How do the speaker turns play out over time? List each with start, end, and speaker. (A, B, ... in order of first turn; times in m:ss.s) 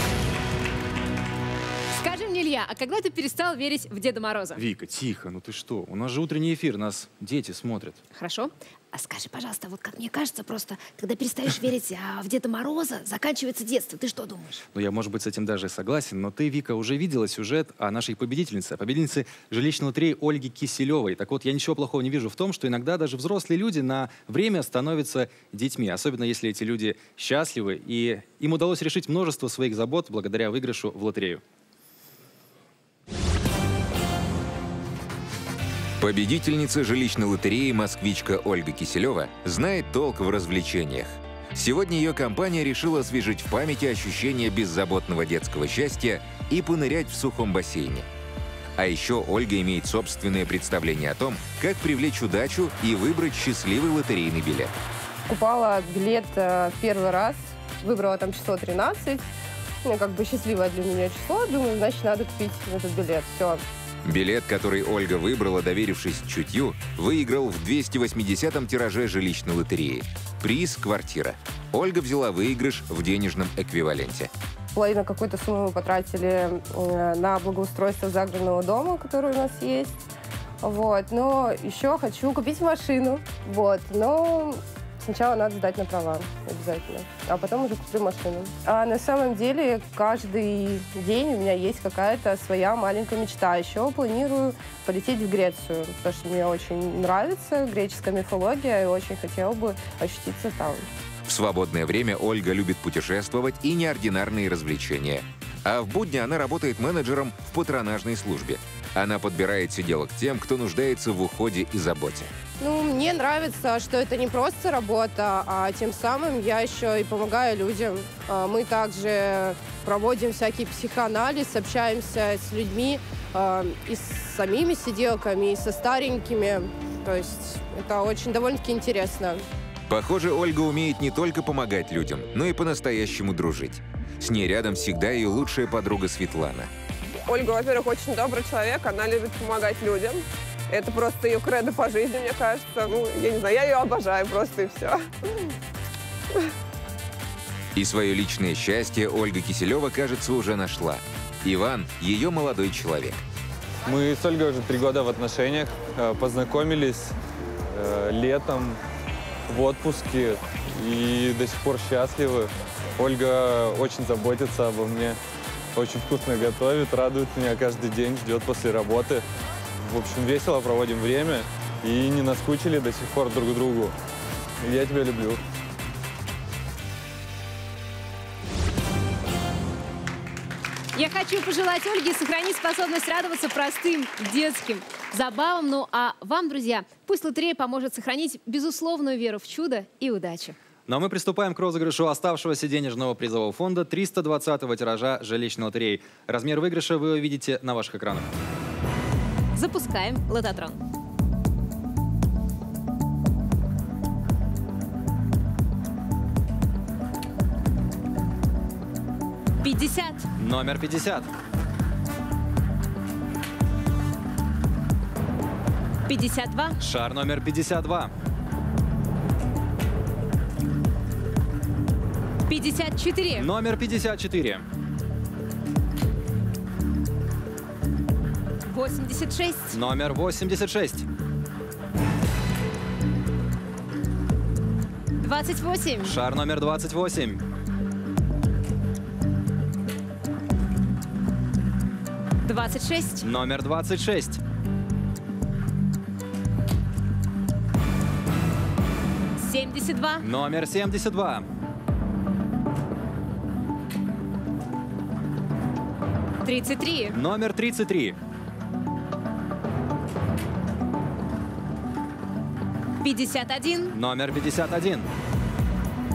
0:01.9-0:04.6 A
0:04.6-0:08.0 B
0:08.2-0:14.6 A
0:14.7-0:31.4 B
0:36.0-0:48.1 C
0:48.8-0:54.7 C
0:55.3-0:59.2 D
0:59.8-1:03.6 D
1:04.0-1:14.3 C
1:14.8-1:20.1 D
1:20.6-1:40.9 D
1:41.2-1:52.3 C
1:52.6-2:09.4 D
2:09.9-2:16.7 C
2:17.2-2:25.5 E
2:27.8-2:33.2 C
2:33.9-2:37.2 F
2:37.7-2:38.8 F
2:39.5-2:45.2 F
2:45.8-2:49.2 F
2:49.9-2:53.9 F
2:54.6-2:55.4 F
3:01.0-3:10.6 A
3:10.9-3:18.3 B
3:19.6-3:20.8 A
3:29.6-3:30.3 A
3:30.4-3:31.3 B
3:36.1-3:36.8 A
3:36.8-3:38.1 B
3:42.5-3:43.5 A
3:43.4-3:44.6 B
3:48.7-3:49.8 A
3:49.7-3:51.0 B
3:55.2-3:56.2 A
3:56.0-3:57.4 B
4:02.4-4:03.3 A
4:03.2-4:04.4 B
4:09.4-4:10.3 A
4:10.2-4:11.4 B
4:16.4-4:17.2 A
4:17.1-4:18.2 B
4:23.0-4:24.0 A
4:23.9-4:25.1 B